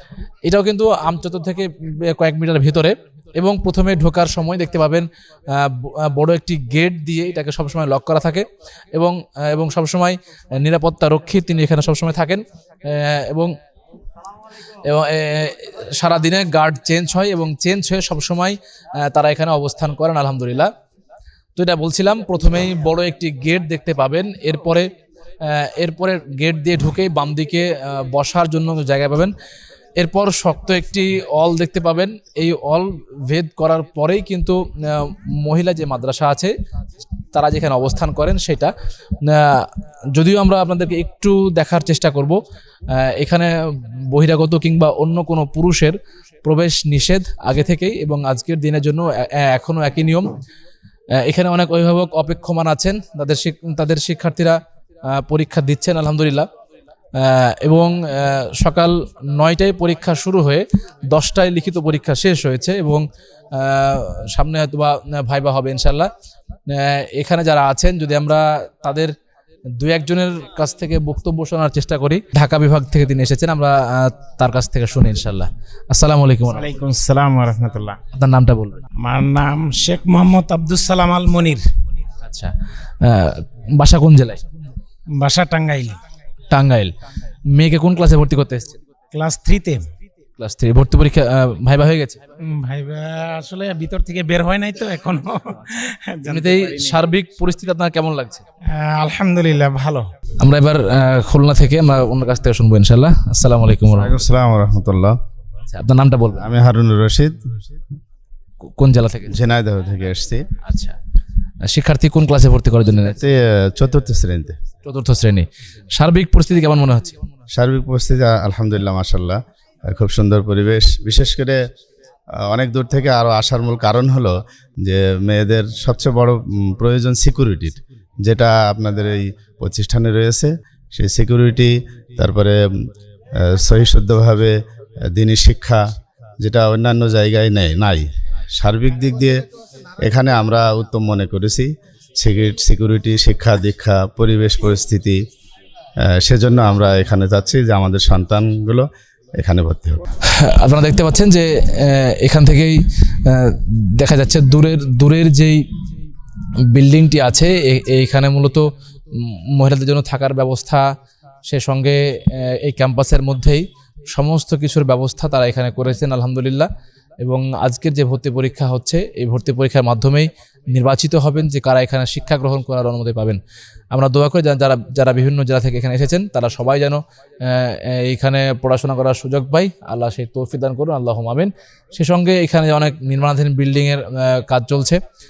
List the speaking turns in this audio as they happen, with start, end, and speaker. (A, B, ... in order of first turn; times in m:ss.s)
0:00.4-0:13.5 A
0:14.8-0:20.7 A
0:21.6-0:24.9 A
0:25.4-0:29.3 A
0:30.0-0:36.5 A
0:37.3-0:38.7 A
0:39.2-0:42.4 A
0:42.9-0:43.5 A
0:44.1-0:50.3 A
0:51.1-0:56.5 A
0:57.2-1:06.1 A
1:06.7-1:09.1 A
1:09.8-1:16.7 A
1:16.4-1:18.0 B
1:18.1-1:18.8 A
1:19.0-1:21.6 B
1:22.2-1:24.4 A
1:25.2-1:26.0 B
1:26.5-1:26.9 A
1:27.5-1:28.8 A
1:29.1-1:29.8 B
1:30.4-1:32.2 A
1:32.4-1:37.0 B
1:36.3-1:38.4 A
1:38.7-1:40.0 B
1:40.4-1:44.2 A
1:44.0-1:45.2 C
1:45.7-1:46.4 A
1:46.4-1:47.5 C
1:48.7-1:49.3 A
1:49.3-1:50.4 C
1:50.6-1:51.0 A
1:51.7-1:53.2 A
1:53.0-1:54.6 C
1:54.8-1:57.2 A
1:57.5-2:01.6 C
2:02.4-2:12.7 C
2:13.3-2:15.8 C
2:16.4-2:19.4 C
2:20.0-2:25.2 C
2:26.0-2:30.0 C
2:30.2-2:35.6 A
2:36.7-2:40.9 A
2:41.5-2:46.7 A
2:47.2-2:53.4 A
2:53.9-3:05.0 A